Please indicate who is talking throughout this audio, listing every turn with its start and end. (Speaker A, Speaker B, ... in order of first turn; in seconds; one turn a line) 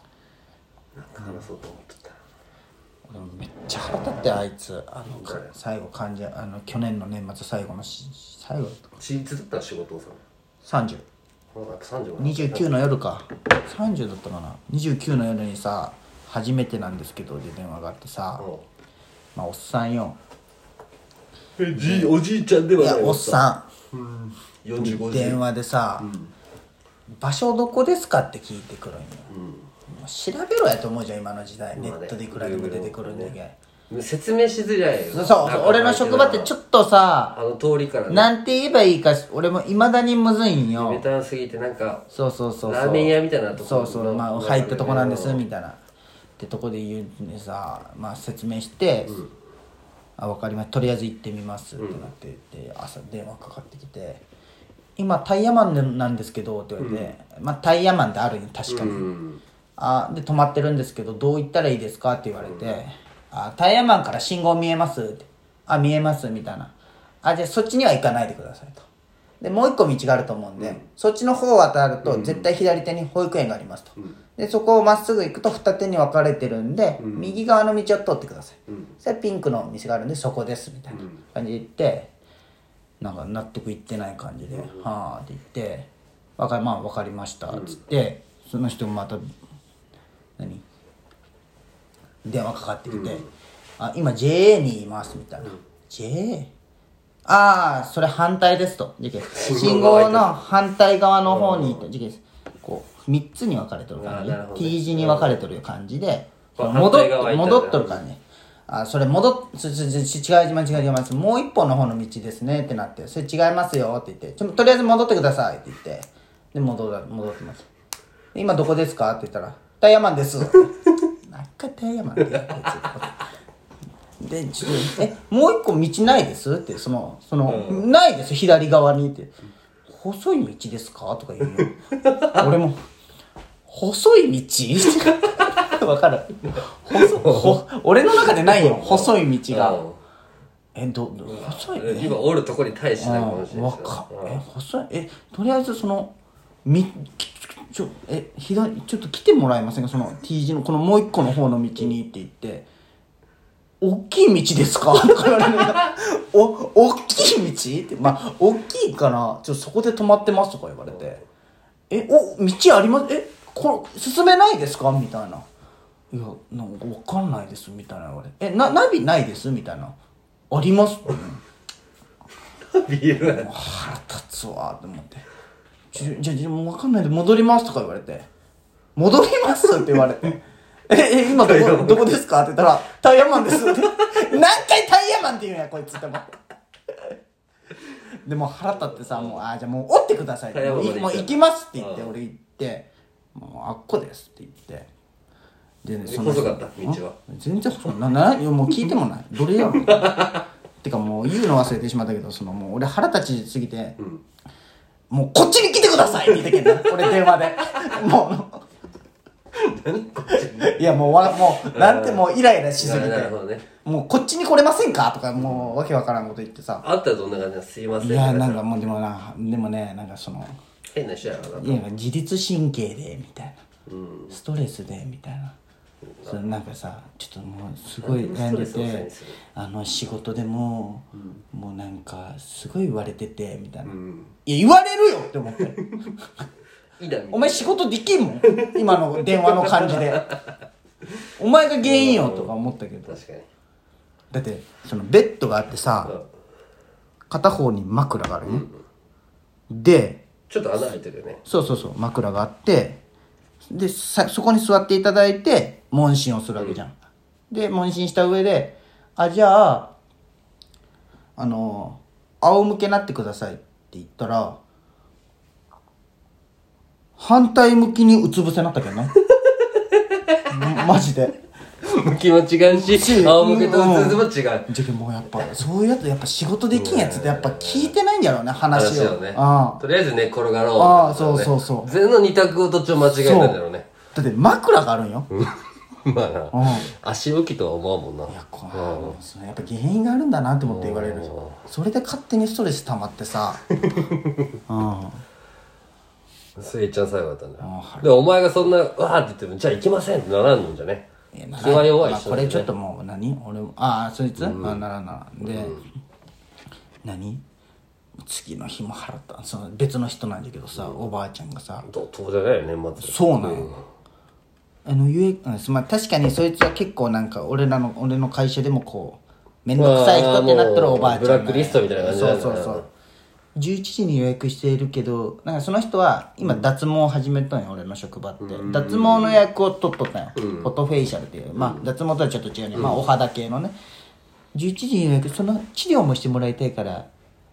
Speaker A: 0.9-2.2
Speaker B: 3.1-8.9
Speaker A: 5.2-5.5
Speaker A: 9.0-10.2
Speaker B: 10.6-11.1
Speaker A: 11.5-12.8
Speaker B: 12.2-18.5
Speaker A: 18.4-18.7
Speaker B: 19.4-20.2
Speaker A: 21.6-25.4
Speaker B: 21.7-22.2
Speaker B: 22.8-23.7
Speaker B: 24.8-26.1
Speaker A: 26.0-26.3
Speaker B: 27.1-29.3
Speaker A: 29.3-29.7
Speaker B: 29.9-33.6
Speaker A: 31.8-33.4
Speaker A: 33.9-36.5
Speaker B: 35.1-37.4
Speaker A: 37.3-38.3
Speaker B: 38.1-41.0
Speaker A: 40.7-42.0
Speaker B: 42.1-45.8
Speaker A: 42.6-45.4
Speaker B: 46.4-49.2
Speaker B: 50.2-54.2
Speaker A: 51.8-52.1
Speaker B: 55.0-59.1
Speaker A: 56.8-57.1
Speaker A: 58.7-59.4
Speaker B: 59.8-68.8
Speaker A: 62.4-62.8
Speaker B: 69.4-82.1
Speaker A: 70.6-70.8
Speaker A: 72.0-72.5
Speaker A: 77.0-77.4
Speaker A: 78.7-78.9
Speaker A: 80.9-81.2
Speaker B: 83.0-89.2
Speaker A: 84.5-84.8
Speaker A: 87.5-87.8
Speaker B: 90.4-90.7
Speaker B: 92.2-93.2
Speaker A: 92.9-93.3
Speaker B: 93.8-96.5
Speaker B: 97.3-117.7
Speaker A: 99.3-100.4
Speaker A: 101.3-101.9
Speaker A: 104.0-105.4
Speaker A: 106.6-108.0
Speaker B: 118.3-120.7
Speaker B: 121.2-123.2
Speaker A: 122.3-122.9
Speaker B: 124.2-129.4
Speaker A: 127.5-127.8
Speaker B: 129.9-131.8
Speaker A: 132.0-132.4
Speaker B: 132.3-132.8
Speaker B: 133.7-139.8
Speaker A: 136.9-137.6
Speaker A: 138.1-140.0
Speaker B: 140.8-142.2
Speaker A: 141.2-144.4
Speaker B: 143.0-152.7
Speaker B: 153.8-161.2
Speaker B: 161.9-165.5
Speaker B: 166.1-170.0
Speaker B: 170.5-171.4
Speaker A: 172.7-173.5
Speaker B: 173.2-175.3
Speaker B: 175.9-178.3
Speaker B: 179.0-186.4
Speaker A: 181.3-182.1
Speaker B: 188.2-194.9
Speaker A: 188.7-189.4
Speaker A: 190.5-192.2
Speaker B: 195.8-200.2
Speaker A: 196.1-197.2
Speaker A: 199.5-200.4
Speaker B: 200.8-204.0
Speaker B: 205.1-208.6
Speaker A: 206.2-207.8
Speaker A: 209.6-212.2
Speaker B: 210.3-216.9
Speaker A: 212.8-213.7
Speaker A: 215.4-215.7
Speaker A: 216.8-218.7
Speaker B: 218.0-220.6
Speaker A: 220.9-221.8
Speaker B: 221.5-223.6
Speaker A: 223.9-224.4
Speaker B: 224.3-225.6
Speaker A: 226.1-226.4
Speaker B: 226.2-233.9
Speaker A: 228.0-229.4
Speaker A: 233.9-234.3
Speaker B: 234.5-236.4
Speaker A: 237.0-237.8
Speaker B: 237.3-240.2
Speaker A: 238.5-238.8
Speaker A: 239.3-240.5
Speaker B: 241.4-243.2
Speaker A: 241.8-242.6
Speaker A: 243.1-243.5
Speaker B: 244.3-246.2
Speaker B: 247.3-248.7
Speaker A: 248.4-248.8
Speaker B: 249.7-250.2
Speaker A: 250.5-251.8
Speaker B: 251.5-253.0
Speaker B: 253.7-256.9
Speaker B: 257.5-259.9
Speaker B: 261.4-264.6
Speaker B: 267.2-269.1
Speaker B: 270.5-271.4
Speaker A: 271.8-274.7
Speaker B: 272.7-279.8
Speaker A: 276.7-277.9
Speaker A: 278.7-283.9
Speaker B: 280.8-281.9
Speaker B: 283.2-283.6
Speaker B: 284.1-285.3
Speaker A: 285.3-289.2
Speaker B: 286.5-286.9
Speaker B: 288.3-293.6
Speaker A: 290.6-291.6
Speaker A: 293.8-294.4
Speaker B: 294.7-295.2
Speaker A: 296.6-302.7
Speaker B: 297.6-298.2
Speaker B: 301.3-305.8
Speaker A: 304.4-304.8
Speaker A: 305.5-305.8
Speaker B: 307.0-307.4
Speaker B: 308.2-311.9
Speaker A: 310.8-311.0
Speaker A: 311.9-313.9
Speaker B: 313.0-313.8
Speaker B: 314.9-322.9
Speaker A: 319.8-322.9
Speaker B: 323.6-333.8
Speaker A: 328.4-329.4
Speaker A: 330.4-330.7
Speaker A: 331.6-331.9
Speaker A: 332.7-333.1
Speaker B: 334.5-337.1